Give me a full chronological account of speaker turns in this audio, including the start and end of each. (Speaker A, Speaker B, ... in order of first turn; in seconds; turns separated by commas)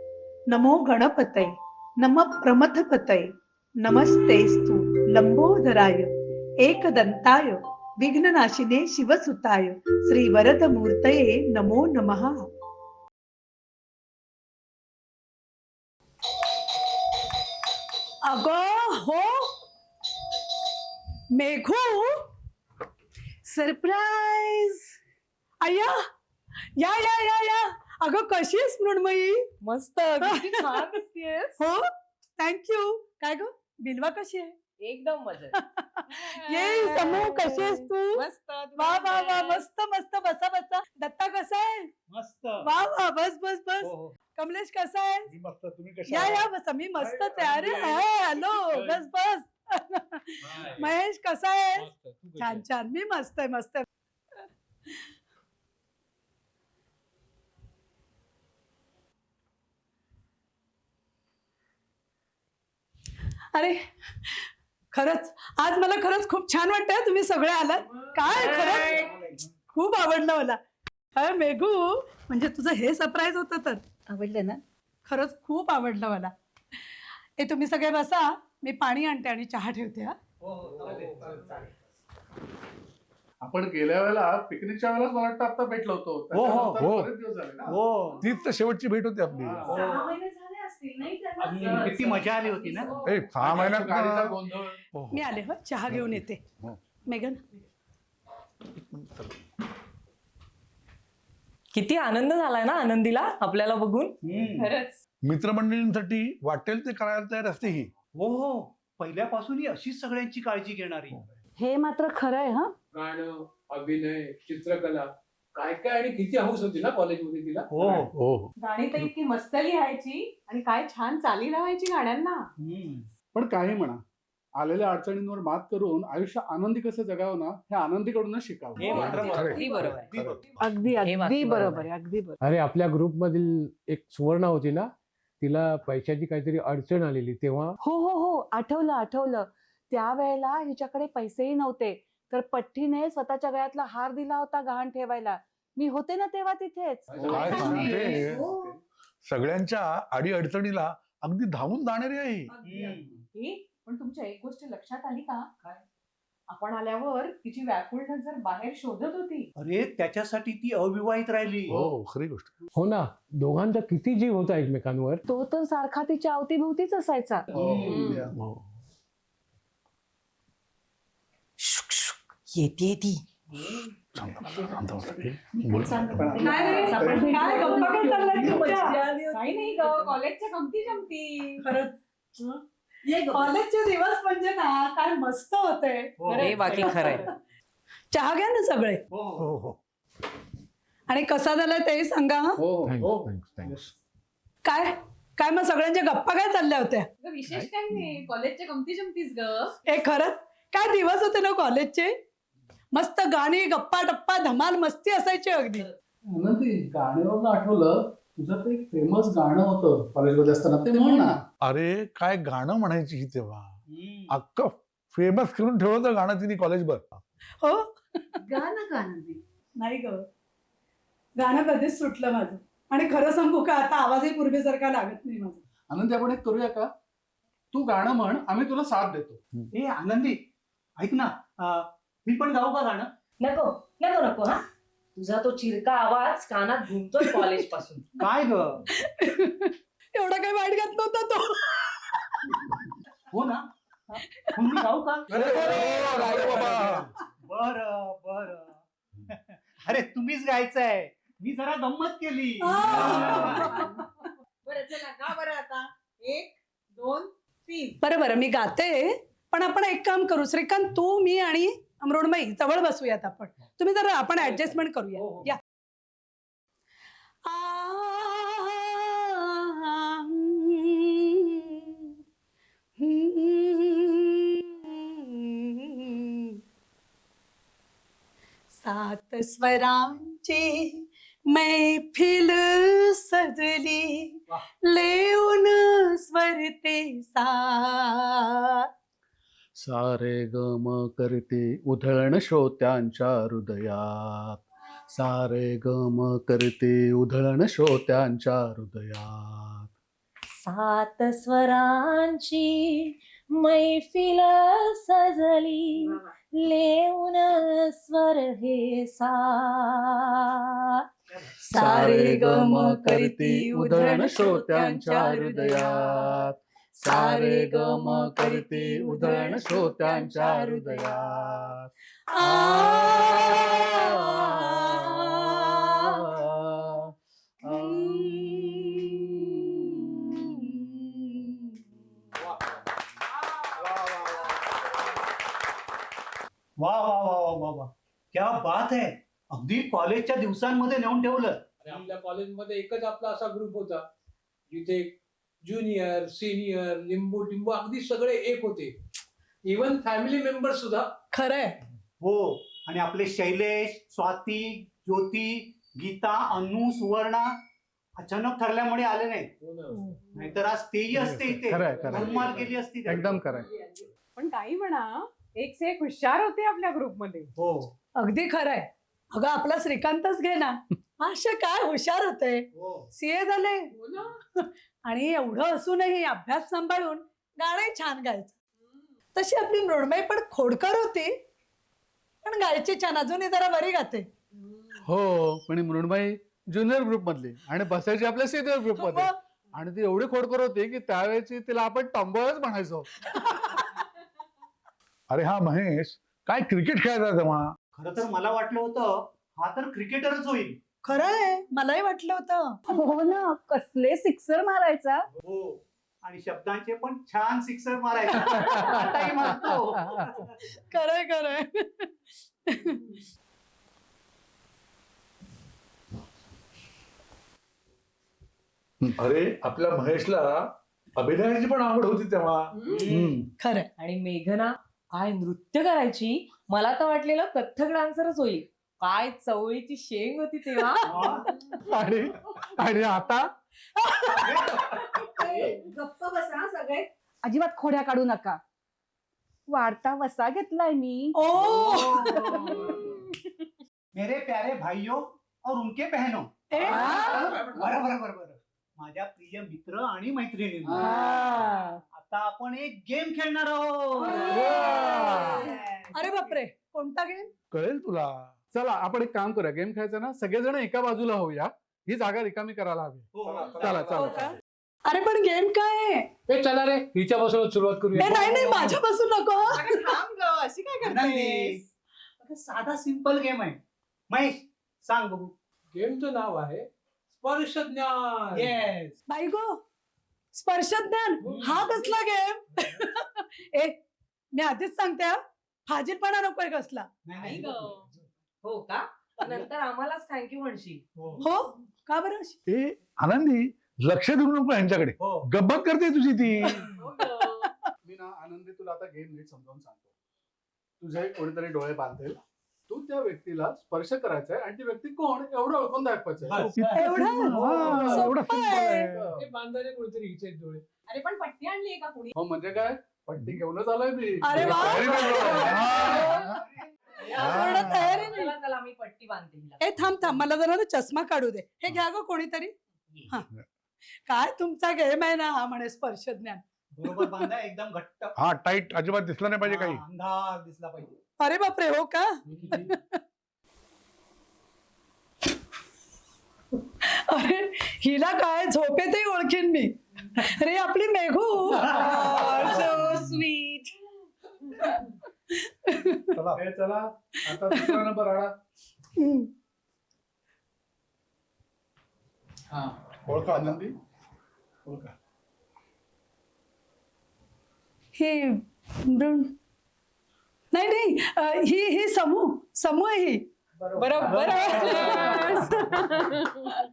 Speaker A: 0.5-12.4, Speaker A: 18.2-19.5, Speaker A: 21.3-22.3, Speaker A: 23.5-24.8, Speaker A: 25.6-26.0, Speaker A: 26.8-29.5, Speaker B: 29.6-31.3, Speaker A: 30.2-30.8, Speaker C: 30.5-31.5, Speaker A: 31.6-31.9, Speaker A: 32.4-34.5, Speaker B: 34.8-35.6, Speaker A: 35.5-38.2, Speaker B: 36.6-37.8, Speaker C: 38.2-39.6, Speaker A: 38.8-41.9, Speaker D: 42.1-42.7, Speaker A: 42.6-45.3, Speaker D: 43.8-44.1, Speaker E: 45.3-46.5, Speaker A: 46.1-53.9, Speaker F: 47.2-49.0, Speaker F: 50.5-50.9, Speaker F: 51.8-52.6, Speaker A: 63.5-69.1, Speaker B: 68.3-69.0, Speaker D: 68.4-69.3, Speaker A: 69.7-70.6, Speaker A: 71.2-73.8, Speaker G: 74.1-74.6, Speaker A: 75.1-76.3, Speaker A: 77.4-80.2, Speaker D: 80.4-81.7, Speaker H: 83.4-87.8, Speaker D: 86.3-86.9, Speaker E: 86.8-87.1, Speaker D: 87.7-88.2, Speaker E: 88.2-89.7, Speaker H: 89.4-89.8, Speaker D: 89.7-90.2, Speaker C: 89.7-93.2, Speaker F: 91.4-92.0, Speaker D: 91.5-93.0, Speaker E: 93.0-94.4, Speaker H: 93.3-94.8, Speaker E: 94.9-95.2, Speaker A: 95.1-96.4, Speaker E: 95.9-96.8, Speaker A: 97.1-97.4, Speaker E: 98.9-99.3, Speaker B: 101.7-104.1, Speaker D: 104.2-104.7, Speaker C: 104.5-105.0, Speaker E: 105.2-107.9, Speaker D: 108.2-111.3, Speaker G: 111.6-112.7, Speaker F: 112.9-117.7, Speaker D: 117.7-118.1, Speaker E: 118.1-119.1, Speaker C: 118.6-122.5, Speaker D: 122.6-123.1, Speaker H: 123.3-124.0, Speaker H: 124.6-130.0, Speaker D: 128.8-130.6, Speaker C: 128.8-130.0, Speaker B: 129.0-130.1, Speaker G: 129.2-130.0, Speaker E: 130.1-130.4, Speaker G: 130.6-132.4, Speaker B: 131.0-131.9, Speaker I: 132.4-137.8, Speaker G: 137.8-147.5, Speaker F: 147.1-147.5, Speaker H: 147.2-148.7, Speaker E: 147.3-148.5, Speaker C: 147.3-148.7, Speaker E: 149.2-152.5, Speaker C: 152.5-155.8, Speaker D: 152.6-153.1, Speaker C: 156.5-159.5, Speaker D: 159.6-161.8, Speaker E: 161.7-162.5, Speaker I: 162.8-165.2, Speaker G: 165.3-167.4, Speaker H: 167.5-168.3, Speaker D: 167.5-168.2, Speaker E: 168.3-168.6, Speaker B: 171.7-173.2, Speaker E: 174.2-176.5, Speaker B: 176.1-180.1, Speaker C: 176.3-181.6, Speaker A: 176.4-179.0, Speaker A: 181.6-182.0, Speaker C: 183.1-183.5, Speaker A: 183.3-187.2, Speaker D: 186.2-187.2, Speaker B: 186.3-187.3, Speaker C: 186.4-186.8, Speaker A: 188.1-189.0, Speaker D: 189.1-189.5, Speaker E: 189.4-189.8, Speaker A: 191.1-192.6, Speaker H: 192.6-193.3, Speaker E: 193.1-193.8, Speaker D: 193.6-193.9, Speaker A: 194.7-197.1, Speaker C: 197.2-199.7, Speaker A: 199.9-202.2, Speaker A: 202.9-205.9, Speaker H: 206.4-211.4, Speaker A: 210.9-211.3, Speaker E: 211.6-213.7, Speaker D: 213.9-214.3, Speaker E: 214.3-217.2, Speaker A: 217.6-218.4, Speaker G: 218.5-219.4, Speaker A: 219.8-220.2, Speaker A: 221.4-225.6, Speaker H: 225.9-226.9, Speaker H: 227.7-229.4, Speaker D: 229.7-230.4, Speaker D: 231.0-233.1, Speaker B: 233.4-234.6, Speaker B: 235.2-238.1, Speaker D: 238.2-238.8, Speaker A: 239.0-242.6, Speaker D: 243.3-243.7, Speaker D: 244.5-253.7, Speaker E: 245.3-247.1, Speaker F: 245.4-246.2, Speaker A: 252.6-254.0, Speaker C: 253.0-254.0, Speaker C: 254.7-258.0, Speaker A: 258.0-265.6, Speaker A: 267.5-271.9, Speaker A: 273.0-276.6, Speaker A: 278.8-288.9, Speaker H: 289.8-299.9, Speaker B: 300.6-310.4, Speaker A: 311.6-316.4, Speaker H: 311.7-321.9, Speaker A: 317.0-321.5, Speaker A: 322.3-326.2, Speaker H: 322.4-324.7, Speaker H: 326.4-327.1, Speaker A: 327.7-331.5, Speaker H: 327.7-328.0, Speaker C: 333.5-334.8, Speaker D: 336.8-342.1, Speaker F: 341.8-344.1, Speaker F: 344.7-348.9, Speaker F: 349.7-351.1, Speaker A: 351.3-351.8, Speaker D: 352.2-357.6, Speaker D: 358.2-359.5, Speaker F: 359.6-360.1, Speaker D: 360.4-363.4, Speaker H: 361.2-363.7, Speaker F: 361.9-362.6, Speaker C: 363.6-367.5, Speaker D: 367.6-367.9, Speaker A: 368.2-373.9, Speaker D: 372.8-373.1, Speaker C: 373.9-374.3, Speaker A: 374.6-378.6, Speaker A: 379.4-381.3, Speaker A: 382.4-384.3, Speaker H: 385.0-393.1, Speaker A: 389.0-389.3, Speaker A: 393.4-393.8, Speaker E: 395.3-397.6, Speaker D: 397.9-400.8, Speaker A: 401.0-402.8, Speaker G: 402.9-405.3, Speaker D: 405.4-410.7, Speaker H: 408.6-409.0, Speaker A: 410.7-412.1, Speaker A: 412.7-413.1, Speaker E: 419.1-420.6, Speaker E: 421.2-423.4, Speaker D: 422.9-423.4, Speaker A: 423.6-423.9, Speaker B: 424.0-431.4, Speaker D: 431.1-431.5, Speaker H: 431.9-433.5, Speaker A: 434.2-434.5, Speaker D: 434.4-435.0, Speaker C: 435.4-435.8, Speaker G: 435.7-438.6, Speaker G: 439.7-441.4, Speaker A: 441.4-442.9, Speaker D: 441.5-443.1, Speaker D: 444.1-451.2, Speaker A: 446.7-447.6, Speaker H: 450.9-451.2, Speaker G: 451.0-451.8, Speaker A: 451.2-451.7, Speaker D: 452.1-455.1, Speaker A: 454.4-457.5, Speaker E: 454.7-455.5, Speaker C: 454.9-455.2, Speaker E: 457.7-458.3, Speaker H: 458.7-464.5, Speaker D: 463.4-464.1, Speaker E: 463.4-464.6, Speaker A: 465.1-466.3, Speaker F: 466.5-468.5, Speaker A: 468.2-470.1, Speaker D: 468.2-468.9, Speaker C: 469.7-471.8, Speaker D: 471.0-471.8, Speaker D: 472.4-473.8, Speaker D: 474.3-475.5, Speaker F: 475.9-478.9, Speaker D: 478.6-479.1, Speaker A: 479.3-479.8, Speaker A: 480.5-484.0, Speaker F: 481.4-482.0, Speaker D: 481.4-481.8, Speaker A: 484.5-487.1, Speaker D: 487.3-488.2, Speaker B: 487.4-487.8, Speaker C: 487.4-488.0, Speaker B: 488.6-491.0, Speaker D: 489.4-489.7, Speaker D: 491.2-491.4, Speaker A: 491.4-492.6, Speaker E: 492.7-496.9, Speaker D: 495.2-495.5, Speaker C: 496.9-497.7, Speaker H: 498.0-500.1, Speaker H: 501.0-506.7, Speaker D: 506.5-508.1, Speaker E: 506.7-509.2, Speaker A: 506.9-509.0, Speaker H: 507.6-508.4, Speaker F: 509.1-510.9, Speaker C: 511.1-512.3, Speaker H: 512.4-515.8, Speaker A: 514.4-516.5, Speaker E: 514.5-516.4, Speaker A: 517.2-518.5, Speaker E: 517.4-518.2, Speaker B: 517.5-519.8, Speaker A: 519.8-522.7, Speaker A: 524.3-527.4, Speaker D: 527.0-528.4, Speaker E: 528.4-530.0, Speaker D: 529.6-531.1, Speaker A: 531.4-533.0, Speaker F: 532.5-532.8, Speaker A: 537.0-542.9, Speaker C: 542.0-543.0, Speaker G: 542.0-543.8, Speaker A: 545.6-546.4, Speaker E: 546.4-546.6, Speaker H: 546.5-548.5, Speaker A: 547.7-548.0, Speaker A: 549.2-549.5, Speaker H: 552.7-553.9, Speaker E: 553.3-553.8, Speaker E: 554.9-555.1, Speaker A: 558.2-559.5, Speaker A: 560.7-563.5, Speaker D: 563.9-565.2, Speaker C: 564.0-566.7, Speaker A: 564.4-566.1